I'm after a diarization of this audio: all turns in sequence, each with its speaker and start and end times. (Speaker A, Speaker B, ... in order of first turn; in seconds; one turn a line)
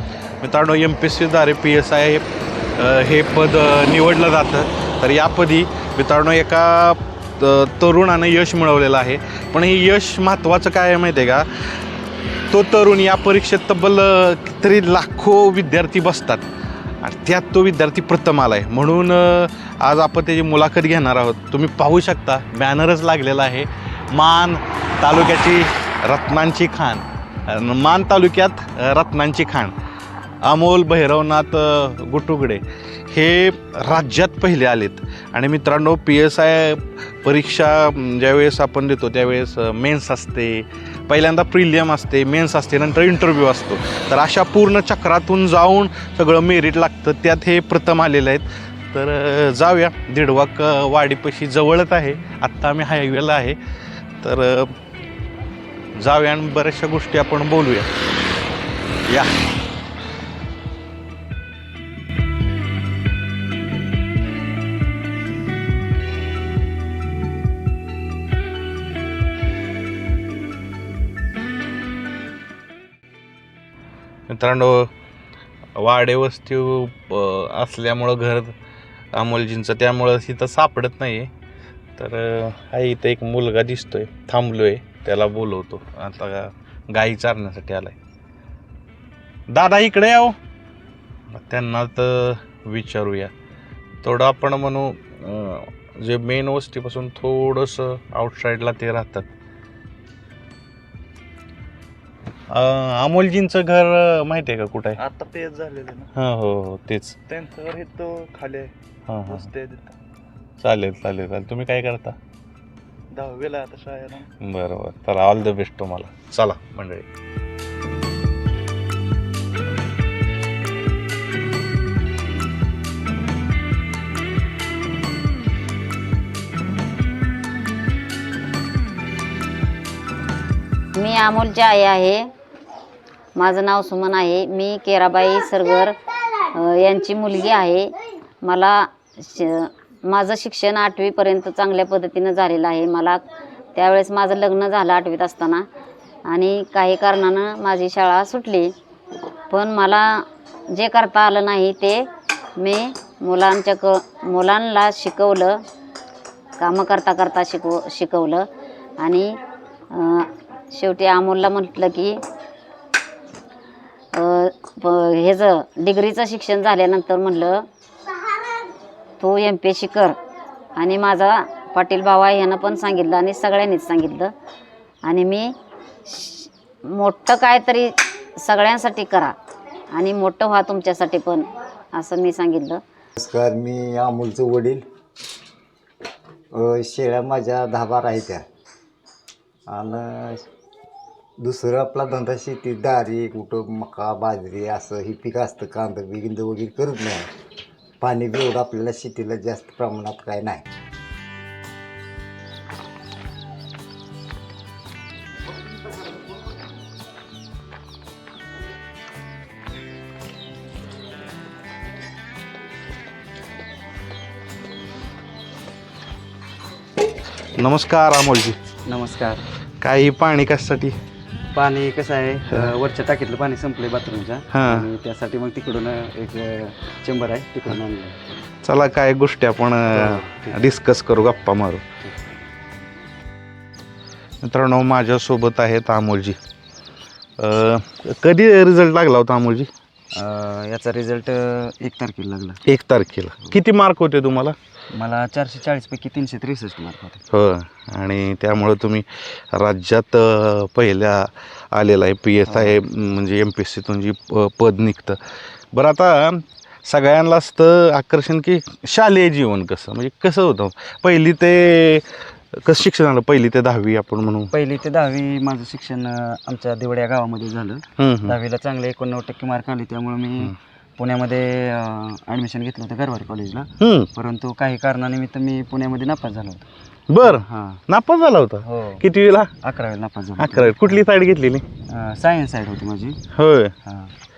Speaker A: 0.4-2.2
Speaker A: 2.8-11.8
Speaker A: 12.5-16.4
Speaker A: 17.0-29.7
Speaker A: 30.4-53.6
Speaker A: 54.2-54.8
Speaker A: 56.0-57.9
Speaker A: 59.1-59.4
Speaker A: 74.3-74.9
Speaker A: 75.8-78.5
Speaker A: 79.1-81.3
Speaker A: 82.0-88.0
Speaker A: 89.5-90.4
Speaker A: 91.3-93.3
Speaker A: 94.0-99.3
Speaker A: 102.5-105.0
Speaker B: 105.0-106.1
Speaker A: 106.1-107.2
Speaker B: 107.3-108.7
Speaker A: 109.1-109.5
Speaker B: 109.3-109.9
Speaker A: 110.6-112.2
Speaker B: 113.1-114.3
Speaker A: 114.4-117.1
Speaker C: 130.9-132.3
Speaker C: 133.4-136.0
Speaker C: 136.5-143.2
Speaker C: 143.8-145.7
Speaker C: 146.3-148.7
Speaker C: 149.5-152.1
Speaker C: 152.6-155.6
Speaker C: 156.6-158.5
Speaker C: 159.0-159.4
Speaker C: 159.9-162.2
Speaker C: 164.1-167.7
Speaker C: 169.2-170.2
Speaker C: 170.8-174.3
Speaker C: 175.0-175.5
Speaker C: 176.1-179.3
Speaker C: 179.9-182.8
Speaker D: 183.2-184.8
Speaker D: 186.5-188.4
Speaker D: 189.7-190.5
Speaker D: 191.4-197.3
Speaker D: 198.0-200.6
Speaker A: 217.6-218.6
Speaker E: 218.9-219.4
Speaker A: 219.8-221.0
Speaker E: 221.5-228.2
Speaker A: 224.5-224.9
Speaker A: 228.6-231.8
Speaker E: 229.9-230.6
Speaker A: 234.4-236.4
Speaker A: 237.4-239.7
Speaker E: 240.1-242.6
Speaker A: 242.7-244.6
Speaker E: 244.9-247.2
Speaker A: 247.3-255.2
Speaker E: 252.5-252.8
Speaker A: 255.7-264.5
Speaker E: 264.5-276.7
Speaker A: 268.0-268.4
Speaker A: 273.8-274.1
Speaker A: 277.1-279.5
Speaker E: 277.2-277.8
Speaker E: 278.6-279.0
Speaker E: 279.6-281.0
Speaker A: 280.4-281.6
Speaker E: 281.9-283.2
Speaker A: 283.4-283.7
Speaker E: 283.9-284.1